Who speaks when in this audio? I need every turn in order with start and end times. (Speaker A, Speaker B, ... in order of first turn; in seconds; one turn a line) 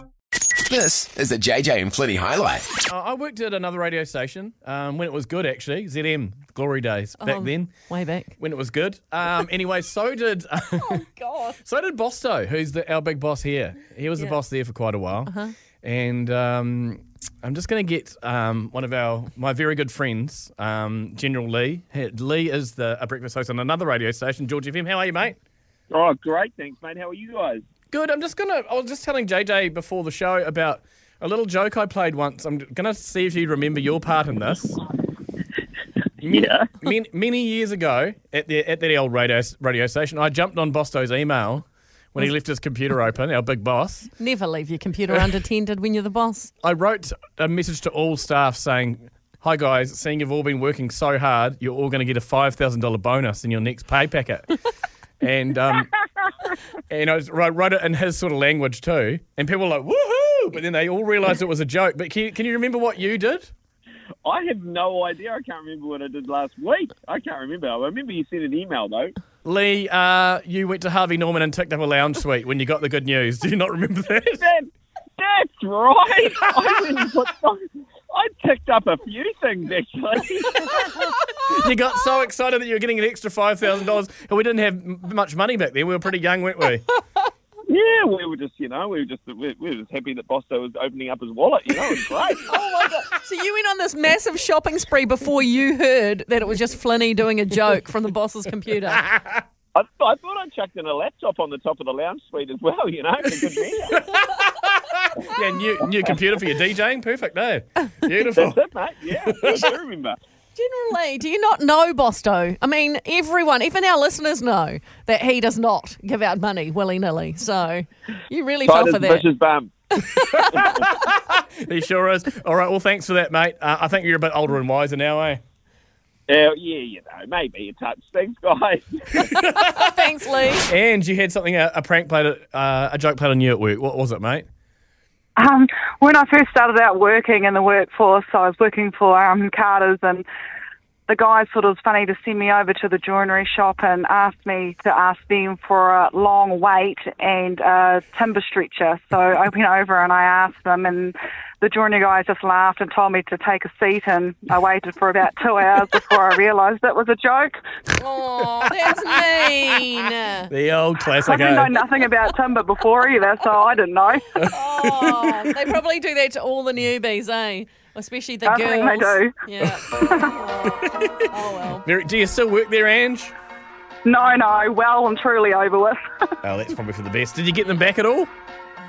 Speaker A: 0.6-2.7
Speaker B: 2.9-7.8
Speaker C: 7.2-8.3
Speaker B: 8.4-11.0
Speaker C: 10.8-11.6
Speaker B: 11.6-25.4
Speaker C: 15.2-15.5
Speaker D: 25.9-27.6
Speaker B: 27.9-34.8
Speaker B: 36.2-44.1
Speaker D: 36.3-36.7
Speaker C: 44.2-46.5
Speaker B: 46.6-54.5
Speaker B: 55.2-56.0
Speaker B: 56.9-63.5
Speaker D: 64.2-69.1
Speaker B: 69.4-74.4
Speaker D: 74.3-81.1
Speaker B: 76.5-76.7
Speaker B: 81.3-86.8
Speaker D: 87.7-92.9
Speaker C: 92.5-99.0
Speaker B: 99.1-99.4
Speaker D: 99.7-104.0
Speaker B: 104.1-108.7
Speaker D: 105.8-106.2
Speaker D: 108.3-110.2
Speaker B: 109.3-109.6
Speaker C: 110.5-119.3
Speaker D: 118.6-119.7
Speaker C: 120.0-120.7
Speaker B: 120.5-125.4
Speaker D: 126.3-129.2
Speaker B: 129.2-129.9
Speaker C: 129.7-130.7
Speaker B: 130.7-134.5
Speaker E: 135.4-140.2
Speaker E: 141.1-157.6
Speaker C: 158.0-160.5
Speaker B: 160.5-161.8
Speaker E: 161.2-164.4
Speaker B: 164.3-165.5
Speaker C: 164.4-171.8
Speaker E: 168.4-169.3
Speaker E: 169.9-170.3
Speaker B: 170.8-171.2
Speaker B: 171.8-173.3
Speaker E: 174.0-176.0
Speaker B: 176.4-178.3